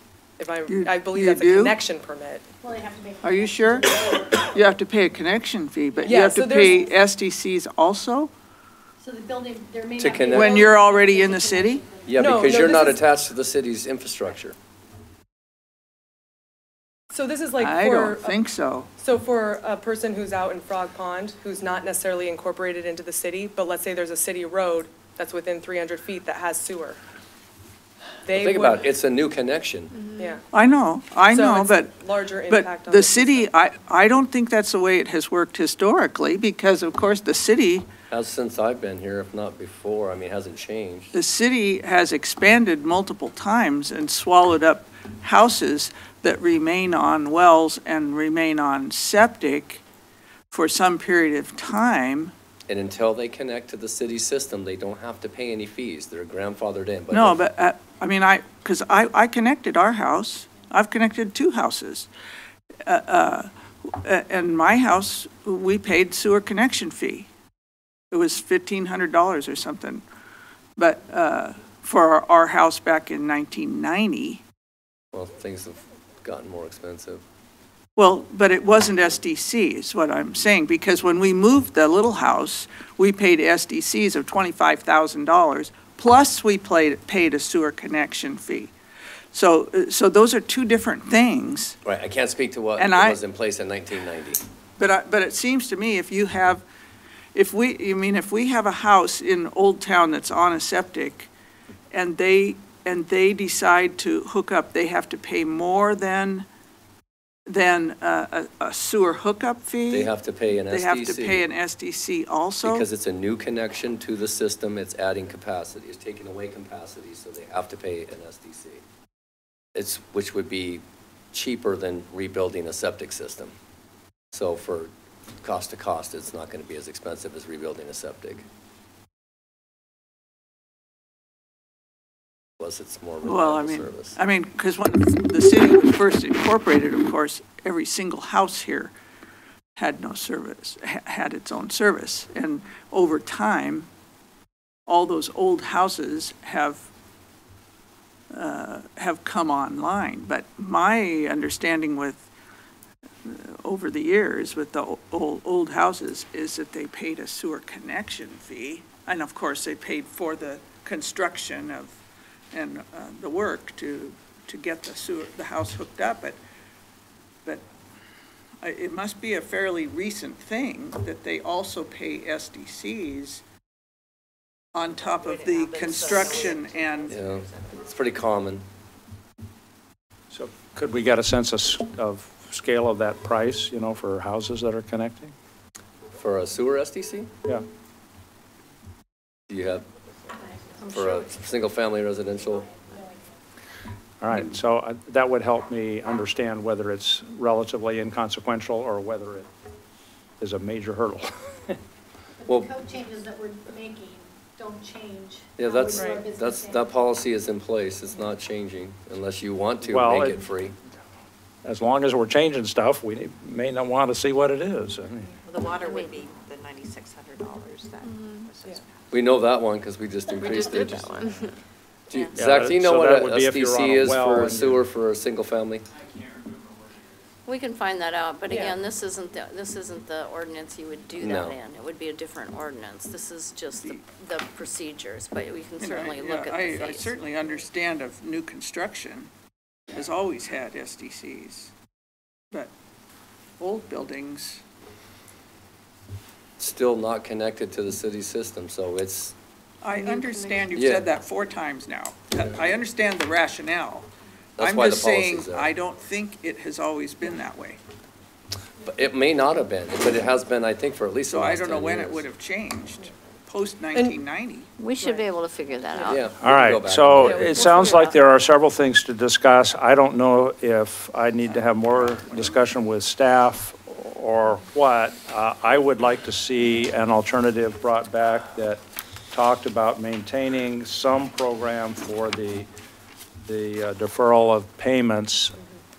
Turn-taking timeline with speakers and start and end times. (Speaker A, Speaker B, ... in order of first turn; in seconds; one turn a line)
Speaker A: 0.4-2.4
Speaker B: 0.7-1.8
Speaker C: 2.6-4.8
Speaker B: 3.2-8.3
Speaker A: 6.0-6.8
Speaker C: 9.0-12.7
Speaker D: 10.0-10.7
Speaker B: 10.2-11.8
Speaker D: 12.0-14.5
Speaker A: 12.2-13.0
Speaker A: 17.1-18.4
Speaker B: 17.6-18.9
Speaker A: 19.0-27.0
Speaker A: 28.2-28.8
Speaker D: 28.3-29.9
Speaker A: 30.1-30.4
Speaker B: 30.5-31.9
Speaker A: 31.3-33.5
Speaker B: 32.5-37.9
Speaker D: 38.1-41.1
Speaker B: 41.1-49.8
Speaker B: 50.5-52.3
Speaker D: 52.7-57.4
Speaker B: 57.1-62.1
Speaker B: 62.8-67.3
Speaker B: 68.1-70.0
Speaker B: 70.8-74.4
Speaker D: 75.1-77.2
Speaker B: 78.0-88.7
Speaker B: 89.3-91.8
Speaker D: 91.8-94.4
Speaker B: 92.8-93.2
Speaker B: 94.8-96.6
Speaker B: 97.3-101.3
Speaker B: 101.9-106.5
Speaker B: 107.5-110.1
Speaker D: 109.9-111.4
Speaker B: 110.7-112.8
Speaker D: 112.6-118.8
Speaker D: 119.7-123.5
Speaker D: 124.3-124.9
Speaker D: 125.4-128.4
Speaker D: 132.6-134.2
Speaker B: 133.2-138.9
Speaker B: 139.8-143.9
Speaker B: 144.9-146.8
Speaker B: 148.3-152.3
Speaker B: 153.2-161.9
Speaker B: 162.5-166.4
Speaker B: 168.6-173.4
Speaker B: 174.7-177.2
Speaker E: 174.9-177.8
Speaker F: 175.8-176.6
Speaker D: 177.1-178.6
Speaker G: 180.3-185.3
Speaker D: 186.1-187.3
Speaker D: 189.5-189.8
Speaker C: 190.3-191.5
Speaker D: 190.8-192.7
Speaker C: 192.1-193.2
Speaker G: 194.2-199.5
Speaker G: 200.4-201.7
Speaker C: 202.4-206.9
Speaker D: 202.4-202.7
Speaker D: 205.6-210.8
Speaker A: 205.9-206.2
Speaker G: 209.8-210.5
Speaker G: 211.6-215.3
Speaker F: 215.5-218.9
Speaker E: 215.8-216.2
Speaker D: 219.1-221.2
Speaker F: 220.4-221.4
Speaker E: 220.4-221.5
Speaker D: 222.1-225.8
Speaker G: 222.3-224.8
Speaker E: 227.4-237.2
Speaker A: 228.5-228.8
Speaker D: 231.2-231.6
Speaker B: 233.8-234.0
Speaker B: 235.8-239.3
Speaker B: 239.9-241.7
Speaker B: 243.6-244.6
Speaker D: 246.6-249.3
Speaker B: 249.8-254.1
Speaker D: 250.7-251.1
Speaker D: 254.6-255.7
Speaker B: 254.6-257.8
Speaker D: 258.8-262.3
Speaker B: 261.3-264.7
Speaker E: 264.8-266.3
Speaker A: 265.9-266.2
Speaker D: 266.1-267.6
Speaker G: 266.4-278.8
Speaker A: 267.2-267.9
Speaker E: 267.3-268.1
Speaker B: 271.6-272.6
Speaker G: 279.3-282.7
Speaker G: 283.4-285.6